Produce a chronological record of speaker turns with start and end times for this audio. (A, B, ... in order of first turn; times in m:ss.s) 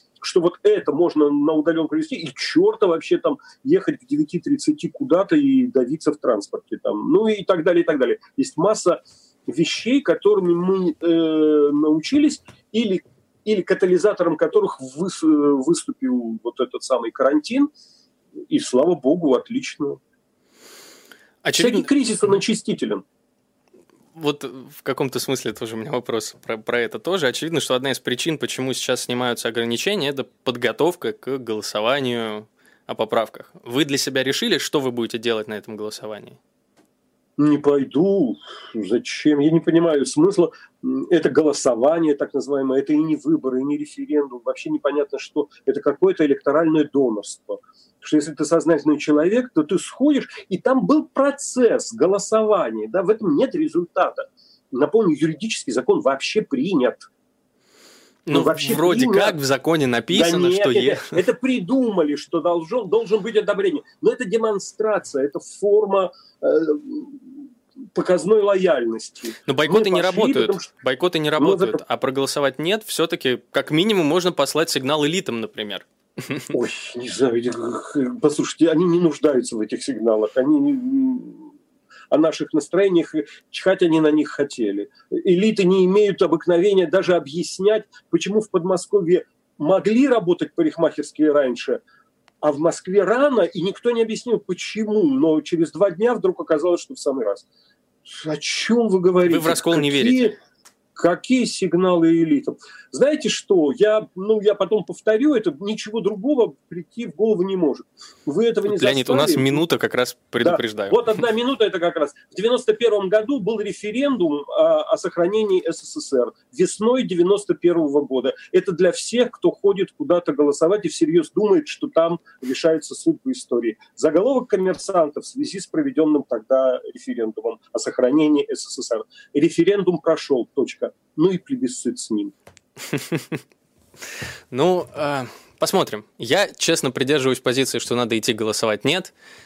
0:00.2-0:17.7 A
0:18.5-0:20.0 A
0:21.4-0:21.9 B
0:21.5-0:23.0 A
0:24.1-0:36.4 B
0:37.4-0:57.0 A
0:58.2-1:01.2 B
0:58.3-0:59.4 A
1:00.1-1:10.7 A
1:09.4-1:16.5 B
1:11.4-1:11.8 A
1:16.5-1:21.5 A
1:22.1-1:31.8 A
1:32.4-1:37.5 A
1:38.0-1:40.3 A
1:39.3-1:40.3 B
1:41.0-1:49.6 A
1:48.7-1:51.0 B
1:50.4-2:12.3 A
2:12.9-2:13.4 B
2:14.5-2:19.1 B